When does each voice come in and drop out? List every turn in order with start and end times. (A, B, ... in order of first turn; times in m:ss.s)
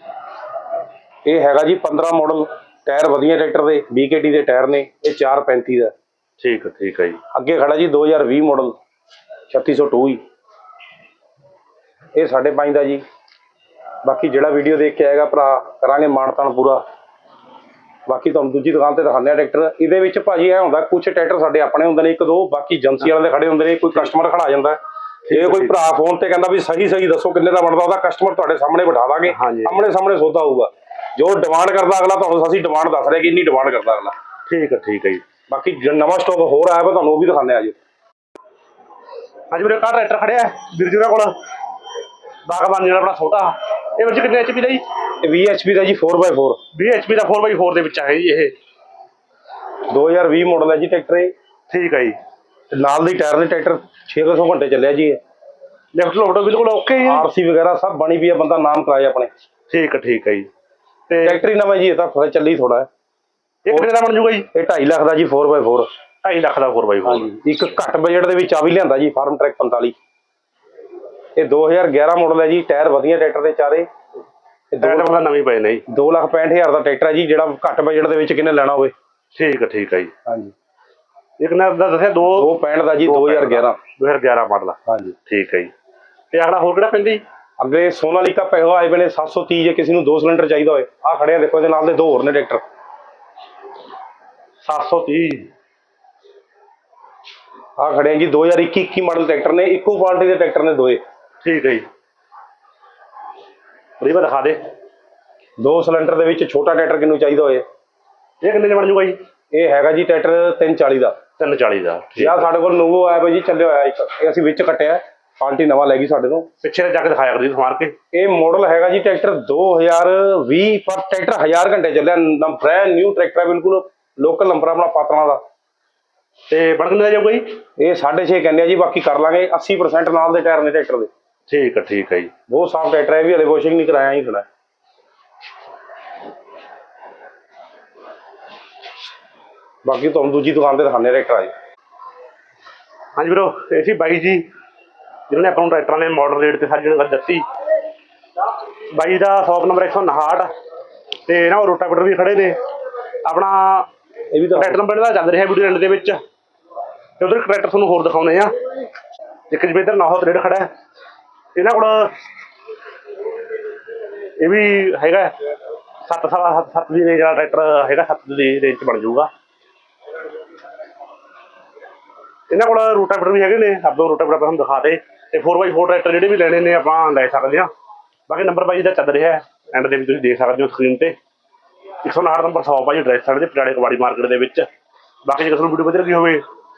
0:01.2-0:05.9 A
0:06.4-0:07.2 B
0:07.3-0:08.8 A
0:09.5-0:10.2 A
0:12.1-0:13.0 A
0:14.0-0:16.8 A
0:18.1-0:24.8 A
0:25.2-0:25.8 B
0:25.3-0:34.1 A
0:29.3-0:29.8 B
0:34.5-0:35.2 B
0:35.5-0:37.8 A
0:39.5-0:41.4 B
0:42.4-0:44.8 B
0:45.2-0:46.6 A
0:46.7-0:48.5 B
0:49.9-0:51.3 A
0:51.7-0:52.2 B
0:52.7-0:55.2 A
0:55.9-0:57.3 B
0:57.0-0:59.3 A
0:59.7-1:00.5 B
1:01.1-1:01.4 B
1:01.2-1:02.9 A
1:03.6-1:04.5 B
1:04.5-1:05.9 A
1:06.2-1:07.3 B
1:07.0-1:10.0 A
1:11.4-1:13.9 A
1:14.7-1:15.1 A
1:14.8-1:15.8 B
1:15.9-1:18.9 A
1:19.3-1:20.1 B
1:20.2-1:20.5 A
1:21.4-1:22.5 B
1:22.2-1:23.8 A
1:23.0-1:25.7 B
1:24.9-1:25.1 A
1:26.3-1:27.2 B
1:27.6-1:32.6 A
1:34.6-1:35.5 B
1:37.8-1:41.0 A
1:41.4-1:41.8 B
1:44.0-1:44.6 B
1:45.6-1:47.6 A
1:48.4-1:49.2 B
1:49.5-1:51.2 A
1:51.4-1:52.5 B
1:52.2-1:56.5 A
1:56.6-1:57.9 B
1:58.1-2:05.4 A
2:06.5-2:07.6 B
2:07.8-2:11.1 A
2:11.5-2:12.3 B
2:12.5-2:14.4 A
2:19.8-2:21.5 A
2:23.2-2:24.5 B
2:25.3-2:27.4 B
2:28.9-2:30.5 B
2:31.2-2:32.6 B
2:33.2-2:33.9 B
2:34.3-2:34.8 A
2:34.5-2:36.2 B
2:37.2-2:38.5 B
2:39.5-2:40.7 B
2:41.6-2:42.2 B
2:44.4-2:45.3 B
2:46.0-2:49.3 B
2:52.5-2:57.7 B
2:58.3-3:01.1 B
3:02.0-3:04.7 B
3:05.2-3:06.4 B